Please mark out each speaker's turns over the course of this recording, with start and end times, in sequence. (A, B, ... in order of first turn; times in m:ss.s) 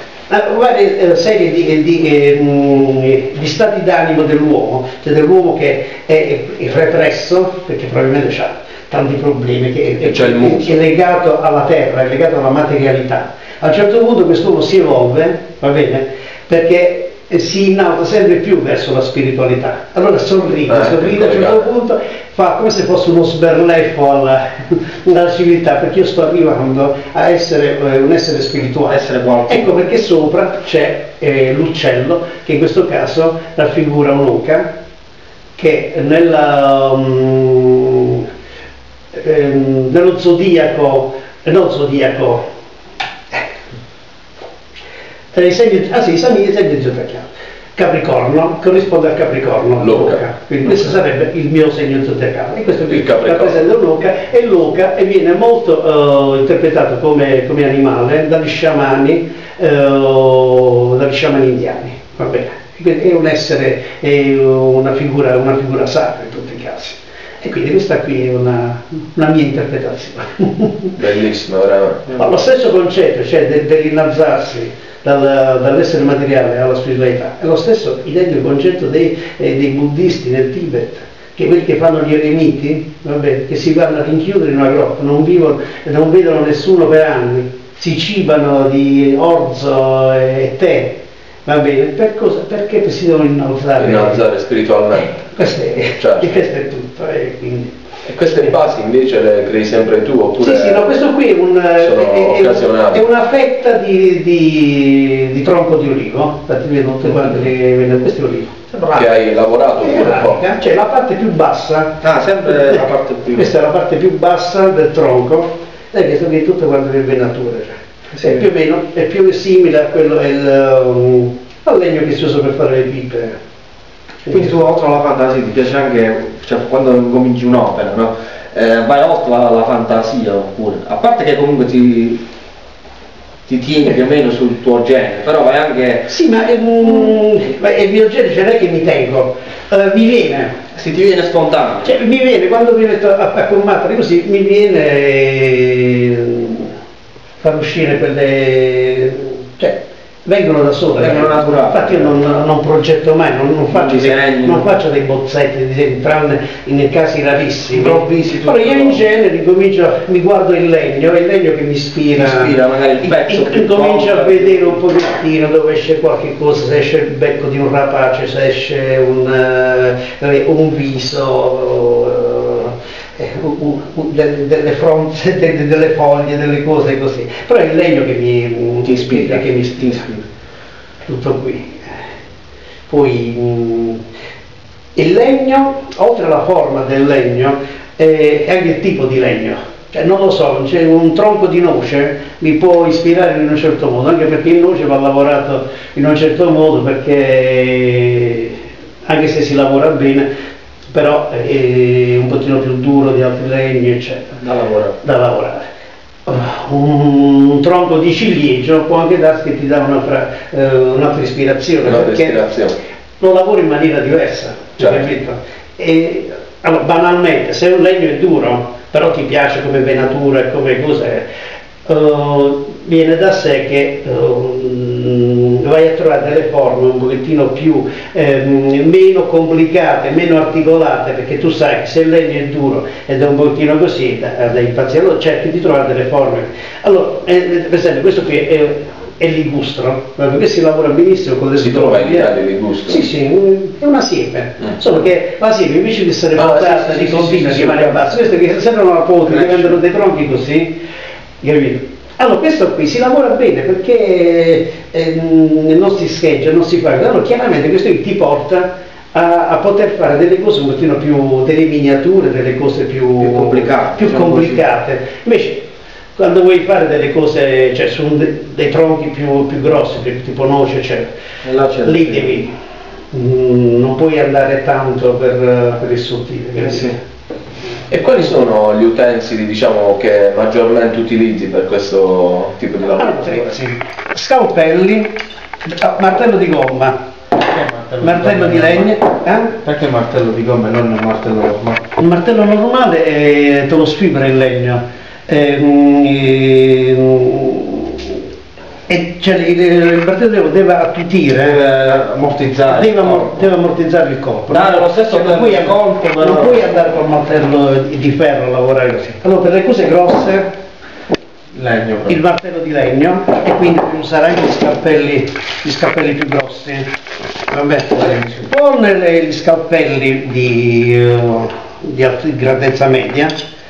0:00.3-0:34.7 A
0:10.0-0:10.8 B
0:20.7-0:21.6 B
0:28.9-0:29.7 C
0:35.6-0:38.2 A
0:39.1-0:42.4 A
0:45.3-1:11.0 A
0:49.8-0:50.2 B
0:52.9-0:53.6 B
1:11.0-1:12.1 B
1:12.1-1:34.2 A
1:33.8-1:35.1 B
1:35.0-1:37.8 A
1:36.0-1:36.4 B
1:38.1-1:41.0 B
1:40.4-1:48.6 A
1:41.8-1:43.1 B
1:48.7-1:49.1 C
1:48.9-1:50.4 B
1:49.8-2:03.4 A
1:52.0-1:53.5 C
2:04.3-2:12.2 C
2:13.5-2:16.1 C
2:16.1-2:20.6 A
2:20.7-2:21.9 C
2:21.8-2:26.7 A
2:27.4-3:00.2 A
2:31.0-2:32.1 C
2:33.7-2:34.8 C
2:37.7-2:39.0 C
2:42.1-2:44.8 C
2:58.9-3:00.2 C
3:01.1-3:02.0 A
3:02.9-3:04.0 A
3:05.0-3:20.3 A
3:20.9-3:24.4 A
3:24.4-3:25.0 C
3:25.0-3:25.6 A
3:26.3-3:32.4 A
3:31.8-3:32.8 B
3:33.2-3:41.2 A
3:34.8-3:35.0 B
3:41.9-4:02.3 A
4:01.6-4:03.0 B
4:02.9-4:10.8 A
4:06.4-4:07.9 B
4:09.3-4:09.7 C
4:11.4-4:25.6 A
4:23.2-4:24.6 C
4:26.2-4:31.1 A
4:31.4-4:32.3 C
4:31.8-4:32.5 A
4:33.1-4:37.0 A
4:37.9-4:43.5 B
4:42.8-4:45.1 A
4:45.6-4:47.0 A
4:47.4-4:48.9 C
4:48.0-4:49.6 A
4:49.6-4:51.8 C
4:52.0-4:58.2 A
4:58.9-5:01.8 A
5:01.6-5:03.3 C
5:02.7-5:10.5 A
5:04.5-5:06.6 C
5:11.5-5:12.2 C
5:12.1-5:16.9 A
5:17.5-5:23.4 A
5:18.1-5:18.4 C